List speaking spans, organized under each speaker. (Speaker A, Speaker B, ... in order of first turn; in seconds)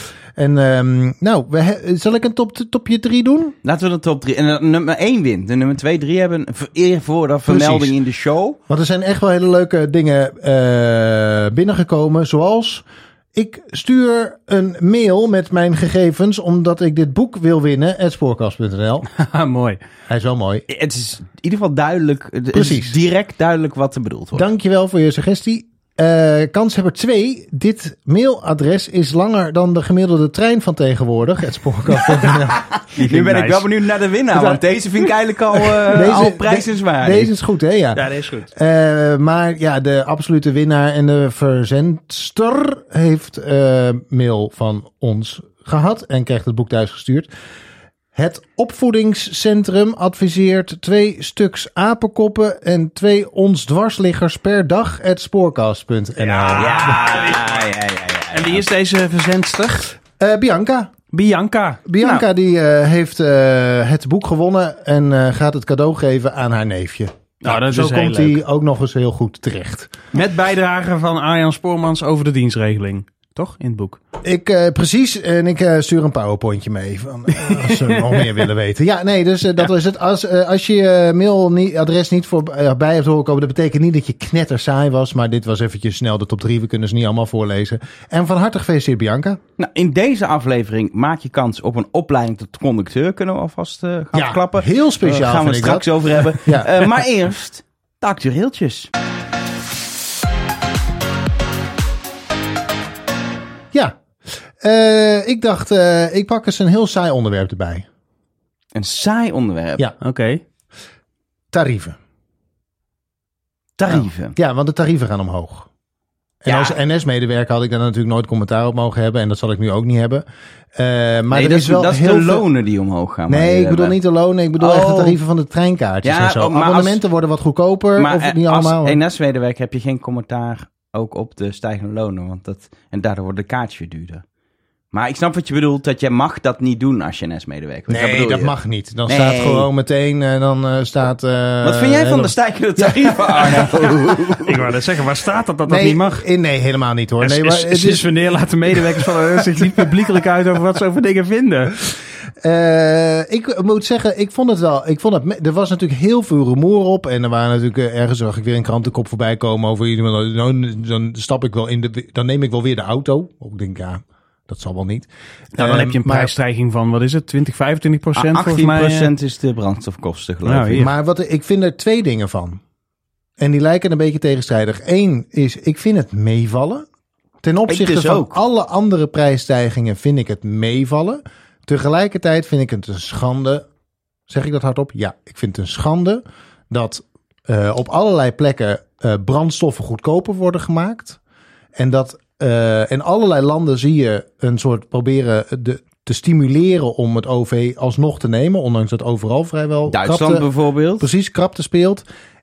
Speaker A: 0.3-3.5, 7.5-7.9, 8.7-19.1, 20.1-20.6, 22.5-22.9, 24.3-32.6, 34.3-34.6, 35.9-47.3, 48.1-57.1, 60.2-60.9, 61.9-69.9, 74.2-89.4, 94.1-96.7, 103.7-104.0, 104.6-107.8, 111.5-112.0, 114.3-115.7, 116.4-122.4, 123.3-129.0, 137.9-143.7, 145.7-148.1, 148.7-149.4, 152.4-166.3, 170.7-172.6, 173.4-176.8, 177.4-183.7, 184.3-191.2, 191.8-200.5, 201.0-202.0
Speaker B: 3.6-8.6, 20.7-24.5, 32.8-37.3, 56.5-58.6, 62.0-62.2, 89.6-98.9, 108.7-109.8, 113.8-114.3, 116.5-116.8, 121.3-124.0, 124.6-125.2, 126.0-127.0, 128.0-134.2, 134.9-138.5, 139.1-139.7, 141.6-144.6, 168.1-170.9, 177.7-178.4, 199.9-201.1
Speaker C: 19.1-19.8, 32.9-33.7, 37.9-38.5, 56.2-57.7, 58.3-59.9, 61.1-61.8, 67.4-68.4, 70.1-74.0, 77.3-78.4, 110.0-110.4, 143.8-146.2, 147.2-151.8, 165.5-169.1, 170.4-170.9